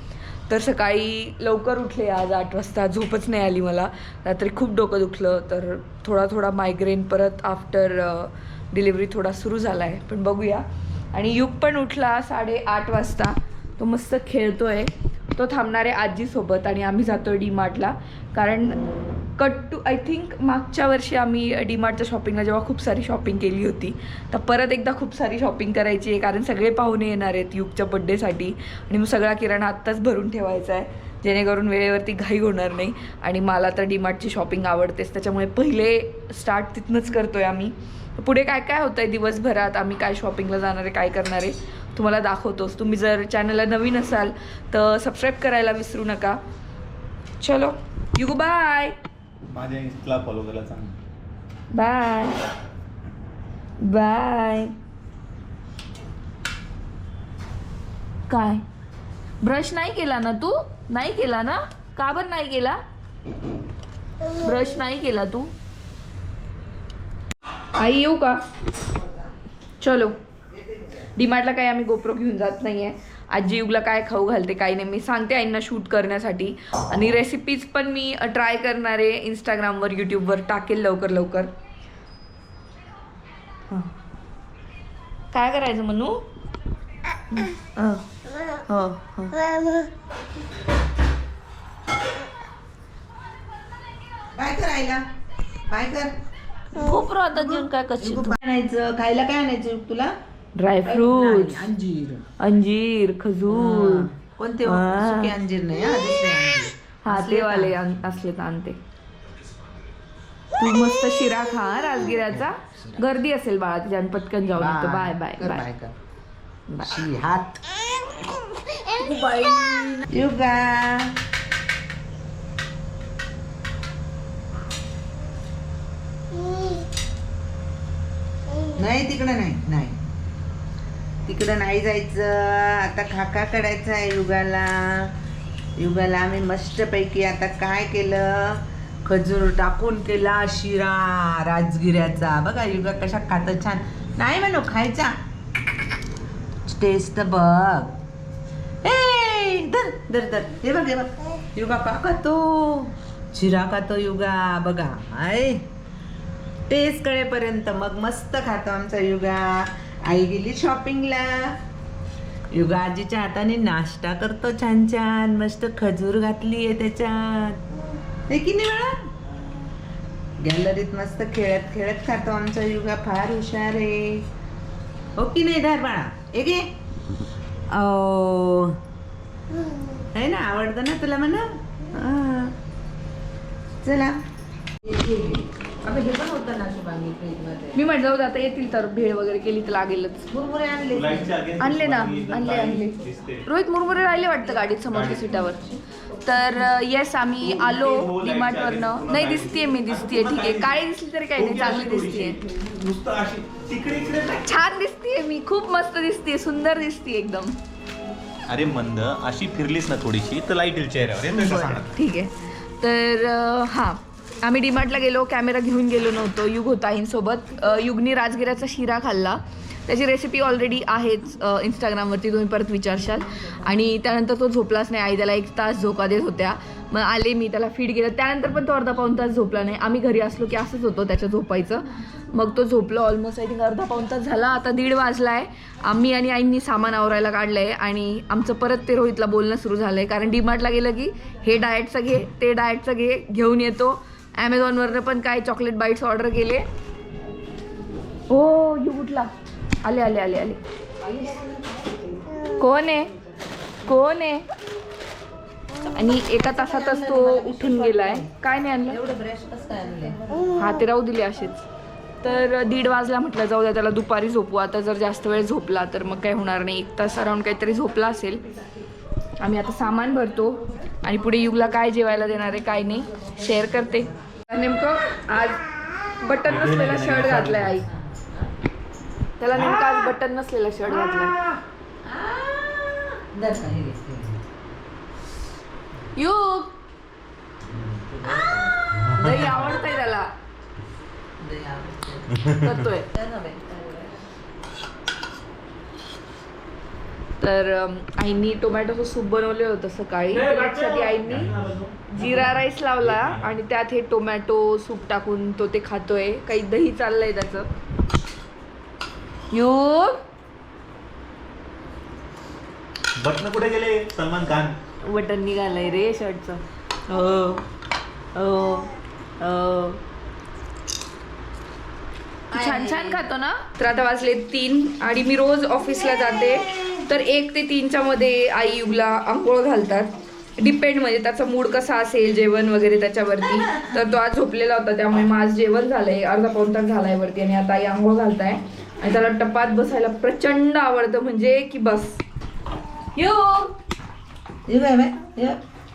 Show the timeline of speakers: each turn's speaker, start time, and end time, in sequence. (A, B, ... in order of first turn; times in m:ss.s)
0:00.5-0:18.8 A
0:19.4-0:46.4 A
0:47.4-0:48.9 A
0:49.5-0:50.9 B
0:51.7-0:52.4 A
0:53.8-0:54.7 A
0:58.3-0:58.6 A
0:59.4-1:02.8 A
1:04.3-1:05.5 A
1:07.8-1:08.4 A
1:09.8-1:10.2 A
1:10.9-1:21.5 A
1:25.3-1:26.2 A
1:27.3-1:28.1 A
1:28.6-1:29.5 A
1:34.3-1:35.0 C
1:35.7-1:36.2 C
1:36.7-1:38.4 A
1:38.0-1:40.1 C
1:40.6-1:41.7 A
1:40.8-1:42.2 C
1:42.4-1:44.1 A
1:43.5-1:47.8 C
1:44.6-1:45.3 A
1:47.0-1:48.8 A
1:50.6-1:55.7 A
1:52.7-1:53.0 C
1:54.6-1:55.9 C
1:56.7-1:57.0 A
1:56.8-1:57.6 C
1:58.9-2:01.2 C
2:08.7-2:10.0 C
2:11.2-2:15.1 C
2:15.8-2:25.1 C
2:26.6-2:28.0 C
2:28.8-2:35.7 C
2:36.7-2:41.6 C
2:42.5-2:47.6 C
2:48.3-2:49.1 C
2:50.4-2:54.3 C
2:55.2-2:56.7 C
2:57.7-2:58.8 C
3:00.1-3:02.5 C
3:03.8-3:04.2 C
3:04.8-3:07.8 C
3:07.7-3:10.3 A
3:10.3-3:11.3 C
3:10.9-3:13.4 B
3:11.6-3:22.4 A
3:14.8-3:15.5 B
3:17.4-3:20.8 B
3:21.4-3:24.4 B
3:24.4-3:27.6 A
3:28.5-3:31.9 B
3:31.3-4:06.6 A
4:08.3-4:09.3 A
4:09.8-4:10.6 A
4:12.6-4:13.1 A
4:13.8-4:14.4 A
4:15.9-4:19.0 A
4:16.3-4:18.3 C
4:18.9-4:20.6 C
4:20.6-4:21.6 A
4:22.2-4:28.4 A
4:29.4-4:37.9 A
4:36.4-4:37.8 B
4:38.1-4:38.4 C
4:39.4-4:41.4 A
4:39.6-4:40.0 C
4:41.1-4:44.4 C
4:46.1-4:46.8 A
4:48.9-4:49.4 B
4:49.1-4:50.3 A
4:51.4-4:52.5 C
4:52.5-4:53.1 A
4:53.0-4:54.2 C
4:57.4-5:01.5 A
5:00.3-5:03.4 B
5:02.1-5:07.7 A
5:09.5-5:10.2 A
5:13.2-5:14.7 B
5:15.0-5:17.6 A
5:18.3-5:20.0 A
5:22.5-5:23.2 C
5:22.5-5:42.2 A
5:43.1-5:43.7 A
5:44.7-5:45.6 C